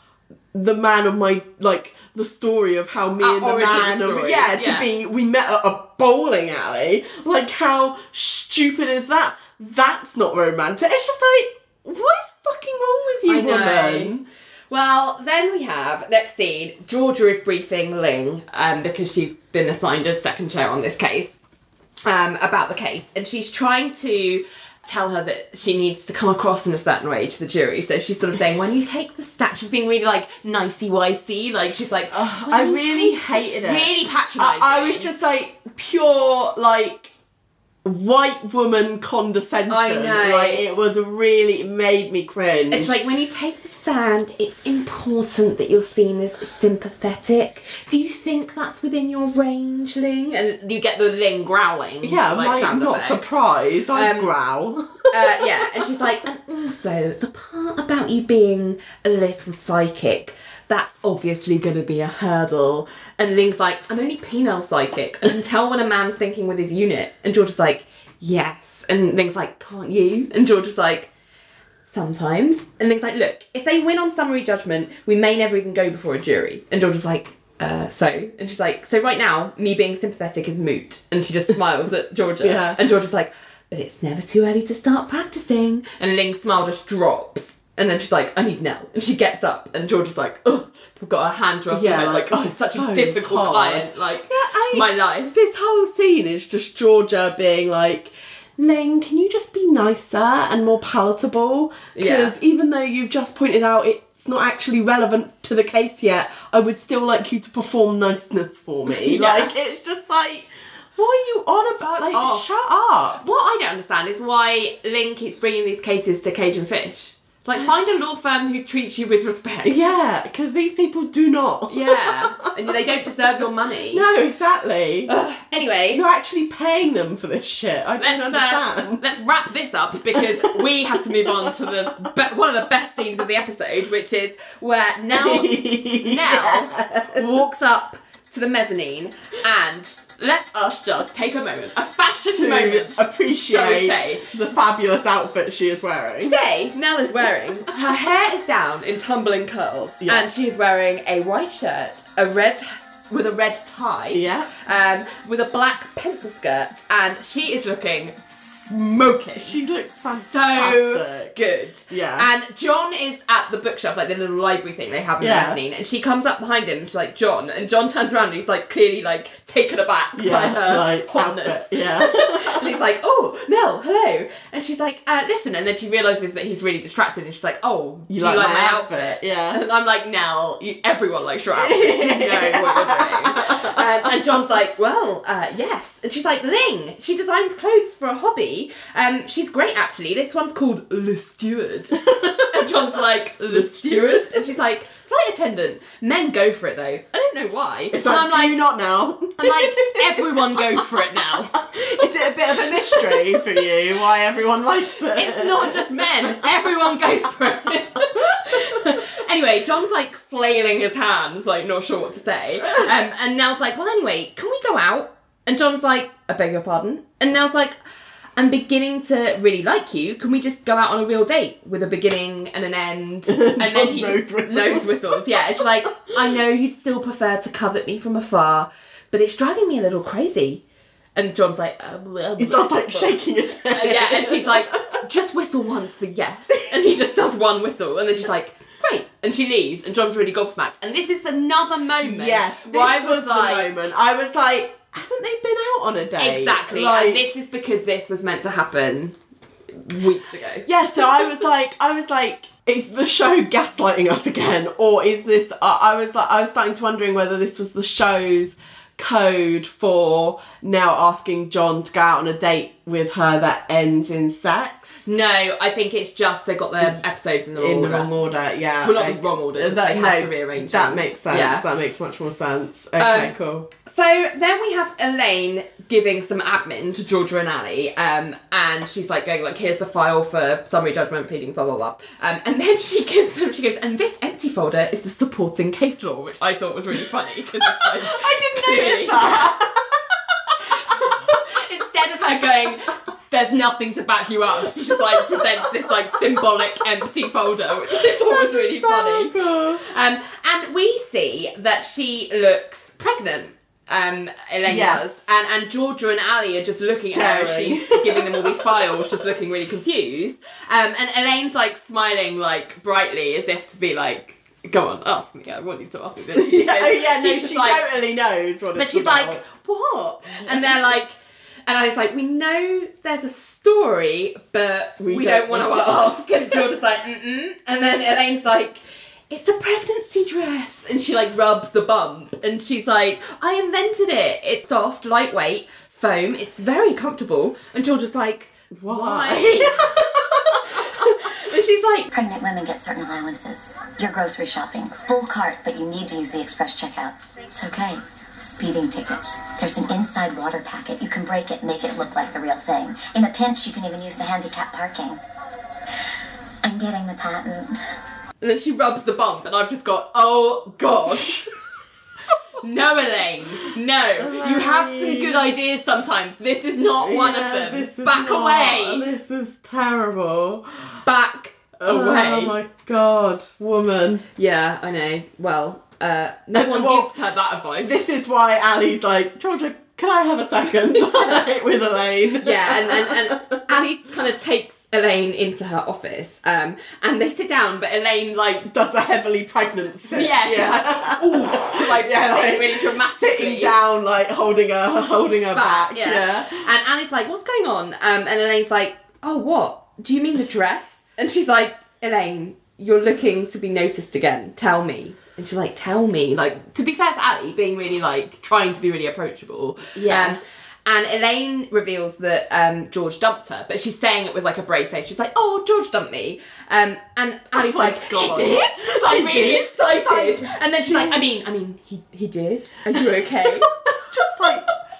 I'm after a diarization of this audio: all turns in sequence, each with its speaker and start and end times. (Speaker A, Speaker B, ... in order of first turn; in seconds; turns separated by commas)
Speaker A: 0.5-14.2, Speaker B: 3.2-4.9, Speaker B: 13.3-21.4, Speaker B: 22.1-35.1, Speaker A: 32.1-37.1, Speaker A: 37.8-42.9, Speaker B: 39.7-40.6, Speaker B: 42.7-53.4, Speaker A: 52.0-55.5, Speaker B: 53.9-54.3, Speaker B: 55.1-71.1, Speaker B: 71.9-95.3, Speaker A: 82.4-82.8, Speaker A: 91.7-113.2, Speaker B: 102.0-102.3, Speaker B: 108.9-109.5, Speaker B: 111.8-112.5, Speaker B: 113.2-119.8, Speaker A: 119.7-122.2, Speaker B: 121.7-124.1, Speaker A: 123.9-125.1, Speaker B: 125.1-126.0, Speaker A: 125.9-129.0, Speaker B: 128.0-144.2, Speaker A: 130.2-130.5, Speaker A: 131.2-131.7, Speaker A: 135.1-137.3, Speaker A: 142.3-146.3, Speaker B: 146.2-198.6, Speaker A: 150.0-150.3, Speaker A: 154.1-154.5, Speaker A: 159.4-161.4, Speaker A: 161.9-162.3, Speaker A: 165.2-165.6, Speaker A: 170.2-172.7, Speaker A: 178.1-179.6, Speaker A: 181.6-183.8, Speaker A: 192.1-192.8, Speaker A: 193.5-194.4, Speaker A: 197.9-205.8, Speaker B: 199.4-202.0, Speaker B: 202.6-203.6, Speaker B: 205.1-217.8, Speaker B: 218.4-230.6, Speaker A: 223.3-225.6, Speaker B: 231.2-243.7, Speaker A: 232.4-234.9, Speaker A: 242.0-247.2, Speaker B: 246.2-249.2, Speaker B: 249.8-251.4, Speaker A: 250.7-265.0, Speaker B: 265.0-268.1, Speaker A: 267.6-273.7, Speaker B: 268.8-271.6, Speaker B: 273.0-289.6, Speaker A: 287.6-291.3, Speaker B: 290.8-317.9, Speaker A: 295.2-295.5, Speaker A: 298.0-299.8, Speaker A: 304.6-305.2, Speaker A: 307.1-309.0, Speaker A: 316.3-319.4, Speaker B: 318.8-321.2, Speaker A: 320.4-320.7, Speaker B: 321.7-339.8, Speaker A: 325.0-326.8, Speaker A: 338.8-341.1, Speaker B: 340.4-342.1, Speaker C: 342.1-355.2, Speaker C: 356.6-357.8, Speaker B: 358.4-361.4, Speaker A: 361.1-361.5, Speaker B: 362.6-369.1, Speaker A: 364.2-365.5, Speaker A: 367.0-371.0, Speaker B: 371.1-372.6, Speaker A: 371.8-374.2, Speaker B: 374.4-378.0, Speaker A: 376.5-377.1, Speaker A: 377.8-383.6, Speaker B: 382.4-388.7, Speaker A: 388.7-396.6, Speaker B: 390.1-393.8, Speaker B: 395.5-424.7, Speaker A: 410.0-410.4, Speaker A: 417.6-421.2, Speaker A: 422.9-424.7